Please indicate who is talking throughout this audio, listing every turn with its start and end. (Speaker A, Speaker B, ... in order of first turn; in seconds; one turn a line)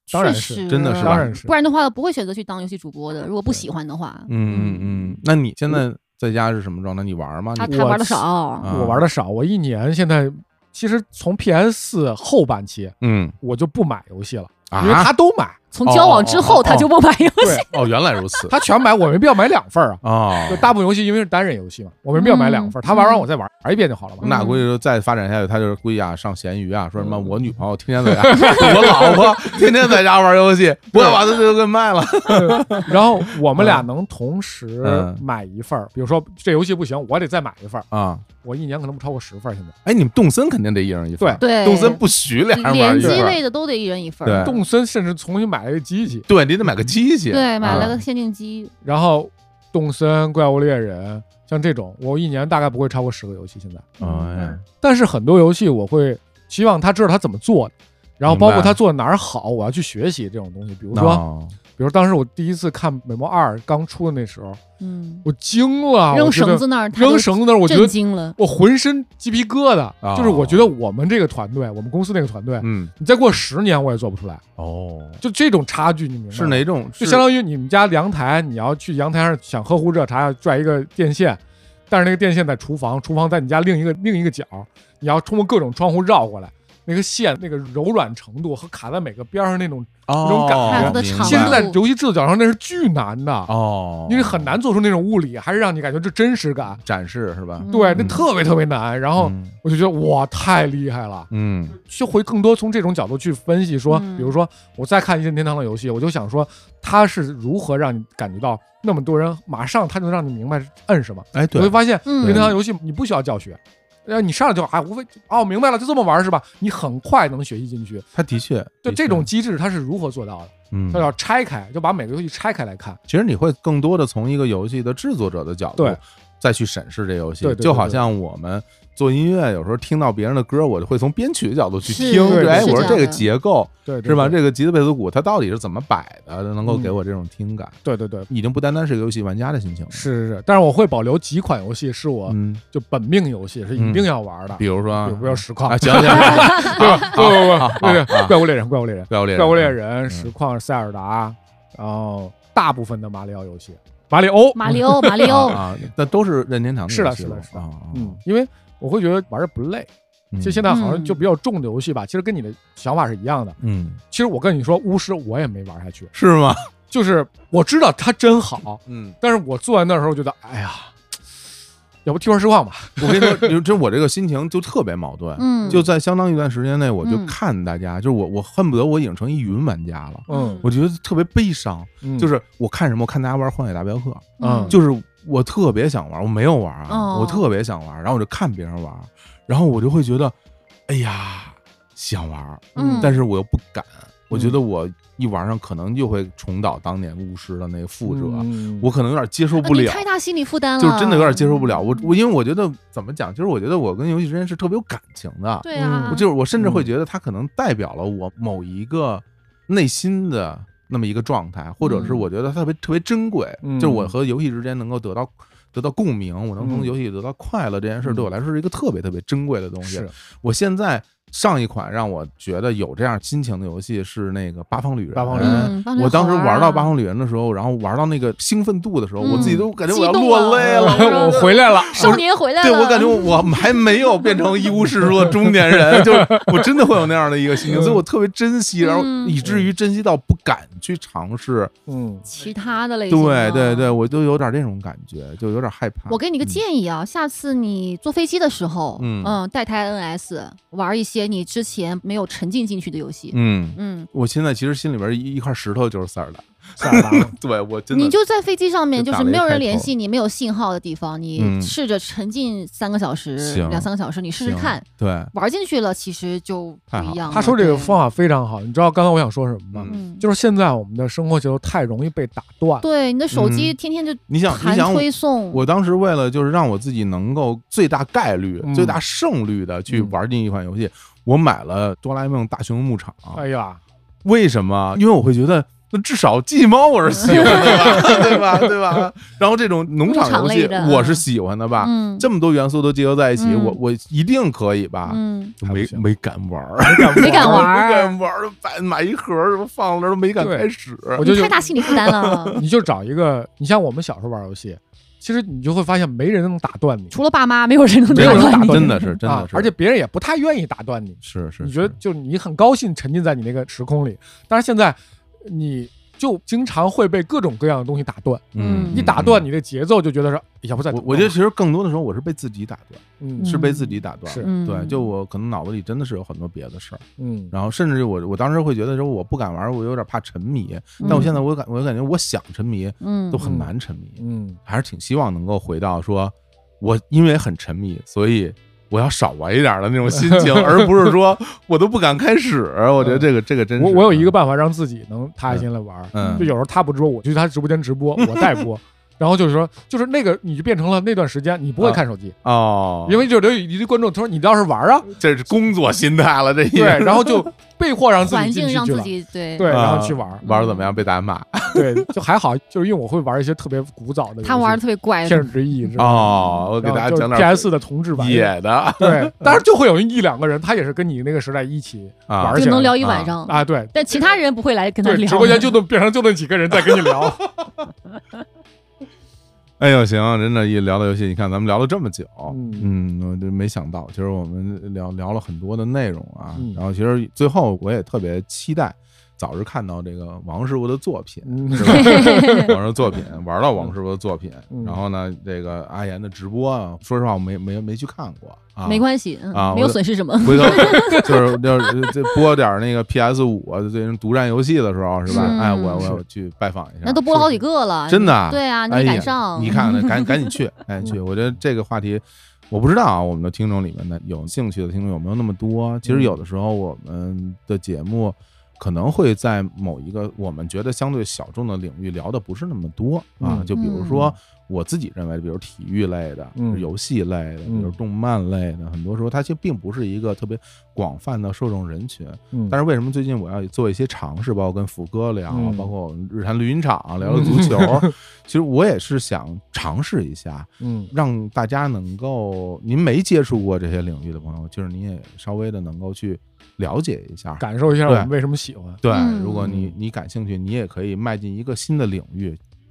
Speaker A: 0.1-1.5
Speaker B: 0.1-5.2
Speaker C: 0.7-1.3
Speaker C: 4.3-9.1
Speaker B: 7.5-8.7
Speaker A: 7.6-15.7
Speaker C: 13.0-13.3
Speaker C: 14.7-15.1
Speaker B: 15.7-18.4
Speaker C: 15.8-16.9
Speaker C: 17.6-18.5
Speaker A: 18.5-24.3
Speaker C: 20.0-20.7
Speaker B: 22.1-23.3
Speaker B: 24.2-24.6
Speaker C: 24.2-33.9
Speaker A: 28.2-29.3
Speaker A: 32.3-37.9
Speaker C: 34.8-35.2
Speaker C: 37.9-38.2
Speaker A: 38.4-39.7
Speaker C: 39.8-43.4
Speaker B: 41.4-44.6
Speaker A: 43.0-43.3
Speaker C: 44.2-44.6
Speaker A: 44.4-46.3
Speaker C: 46.3-48.0
Speaker B: 47.3-48.7
Speaker A: 47.6-47.9
Speaker A: 48.8-54.0
Speaker B: 54.0-54.5
Speaker C: 54.0-54.6
Speaker A: 54.6-61.2
Speaker C: 58.3-58.8
Speaker C: 60.9-61.6
Speaker A: 61.8-64.6
Speaker B: 64.8-65.2
Speaker A: 65.2-74.4
Speaker B: 66.1-68.3
Speaker C: 70.0-70.7
Speaker C: 72.6-72.9
Speaker C: 74.6-75.2
Speaker A: 75.2-93.5
Speaker C: 76.3-77.2
Speaker C: 90.1-91.7
Speaker B: 90.6-91.8
Speaker C: 93.5-94.6
Speaker A: 94.1-96.8
Speaker C: 96.8-98.2
Speaker B: 97.6-98.2
Speaker A: 97.7-118.0
Speaker C: 99.2-99.5
Speaker C: 101.3-101.8
Speaker B: 103.9-104.3
Speaker C: 111.3-112.6
Speaker B: 112.1-112.5
Speaker C: 118.1-119.3
Speaker A: 118.8-123.0
Speaker C: 120.7-121.1
Speaker C: 123.1-137.8
Speaker A: 127.4-128.0
Speaker B: 131.8-133.2
Speaker A: 132.2-133.0
Speaker A: 133.8-134.4
Speaker A: 136.6-136.9
Speaker A: 137.8-138.3
Speaker C: 138.3-140.0
Speaker A: 139.9-155.6
Speaker C: 142.3-142.6
Speaker C: 143.7-148.5
Speaker B: 146.2-146.8
Speaker C: 149.1-150.3
Speaker B: 154.5-155.6
Speaker C: 155.2-158.2
Speaker A: 156.9-163.6
Speaker C: 160.3-160.7
Speaker B: 160.7-161.2
Speaker C: 163.6-164.0
Speaker A: 164.1-166.1
Speaker C: 166.1-166.7
Speaker A: 166.9-170.9
Speaker C: 168.8-169.2
Speaker A: 172.0-173.5
Speaker C: 173.0-190.3
Speaker B: 175.4-175.9
Speaker B: 177.0-177.3
Speaker A: 180.3-180.6
Speaker B: 180.3-180.7
Speaker A: 182.0-182.3
Speaker B: 184.4-184.8
Speaker A: 184.4-184.8
Speaker B: 186.9-187.4
Speaker C: 190.9-200.0
Speaker A: 192.7-193.1
Speaker B: 192.8-193.2
Speaker A: 194.3-194.6
Speaker A: 198.1-198.9
Speaker B: 199.6-202.1
Speaker C: 200.8-241.7
Speaker B: 205.6-206.2
Speaker A: 205.7-206.9
Speaker B: 211.8-212.2
Speaker A: 213.6-214.1
Speaker A: 216.6-216.9
Speaker A: 218.0-218.3
Speaker A: 219.8-220.1
Speaker A: 225.1-225.7
Speaker B: 225.3-226.9
Speaker B: 229.2-233.8
Speaker A: 229.2-229.6
Speaker A: 230.6-232.2
Speaker A: 235.0-236.5
Speaker A: 237.7-238.0
Speaker B: 238.8-239.4
Speaker A: 241.9-242.2
Speaker B: 242.3-243.9
Speaker C: 243.1-246.6
Speaker B: 246.1-254.1
Speaker C: 249.0-249.4
Speaker C: 253.3-258.2
Speaker A: 256.8-257.3
Speaker B: 257.9-268.0
Speaker C: 258.9-259.9
Speaker C: 261.4-261.7
Speaker C: 263.4-263.9
Speaker C: 264.4-265.3
Speaker C: 266.9-267.5
Speaker A: 267.3-272.9
Speaker C: 269.7-270.0
Speaker B: 269.9-270.2
Speaker B: 272.8-275.6
Speaker C: 273.3-273.8
Speaker C: 274.3-283.4
Speaker A: 278.6-279.0
Speaker A: 279.9-280.1
Speaker A: 283.3-283.8
Speaker C: 284.2-301.3
Speaker B: 287.3-288.1
Speaker A: 287.3-288.2
Speaker B: 290.0-291.2
Speaker B: 291.8-292.3
Speaker B: 293.4-293.8
Speaker B: 295.1-295.5
Speaker A: 295.6-296.1
Speaker A: 296.8-297.7
Speaker B: 297.2-298.2
Speaker A: 300.4-301.5
Speaker B: 301.2-302.6
Speaker C: 301.8-302.6
Speaker A: 302.5-307.1
Speaker B: 307.1-309.1
Speaker A: 308.1-321.4
Speaker C: 308.1-309.7
Speaker C: 311.2-312.0
Speaker C: 318.5-319.5
Speaker B: 318.6-319.1
Speaker C: 320.9-344.3
Speaker A: 323.2-323.6
Speaker B: 323.4-325.1
Speaker A: 327.2-327.5
Speaker A: 331.0-331.4
Speaker B: 331.0-331.4
Speaker B: 333.0-333.4
Speaker A: 333.4-334.6
Speaker A: 340.1-341.1
Speaker A: 343.0-352.4
Speaker C: 345.5-346.5
Speaker C: 348.2-348.6
Speaker C: 351.8-353.2
Speaker A: 353.1-355.1
Speaker C: 355.1-357.5
Speaker A: 356.7-360.4
Speaker B: 358.2-359.8
Speaker C: 359.6-362.1
Speaker B: 360.4-360.9
Speaker A: 361.7-374.3
Speaker B: 364.4-365.5
Speaker C: 366.0-369.6
Speaker C: 372.3-373.4
Speaker B: 372.5-375.8
Speaker A: 375.0-377.5
Speaker C: 377.1-377.3
Speaker C: 379.8-448.3
Speaker A: 382.5-382.9
Speaker A: 386.5-386.8
Speaker A: 391.4-392.7
Speaker B: 391.8-392.8
Speaker A: 394.7-395.0
Speaker B: 398.8-402.1
Speaker A: 400.9-401.2
Speaker B: 405.3-406.1
Speaker A: 405.3-406.2
Speaker B: 407.0-410.5
Speaker A: 416.0-416.4
Speaker A: 423.4-423.7
Speaker B: 423.7-424.3
Speaker A: 426.6-426.8
Speaker A: 427.6-427.9
Speaker A: 432.5-432.8
Speaker A: 435.5-435.9
Speaker A: 437.2-438.1
Speaker A: 440.8-441.1
Speaker A: 447.6-449.0
Speaker C: 449.0-452.6
Speaker B: 449.1-449.7
Speaker A: 449.6-449.9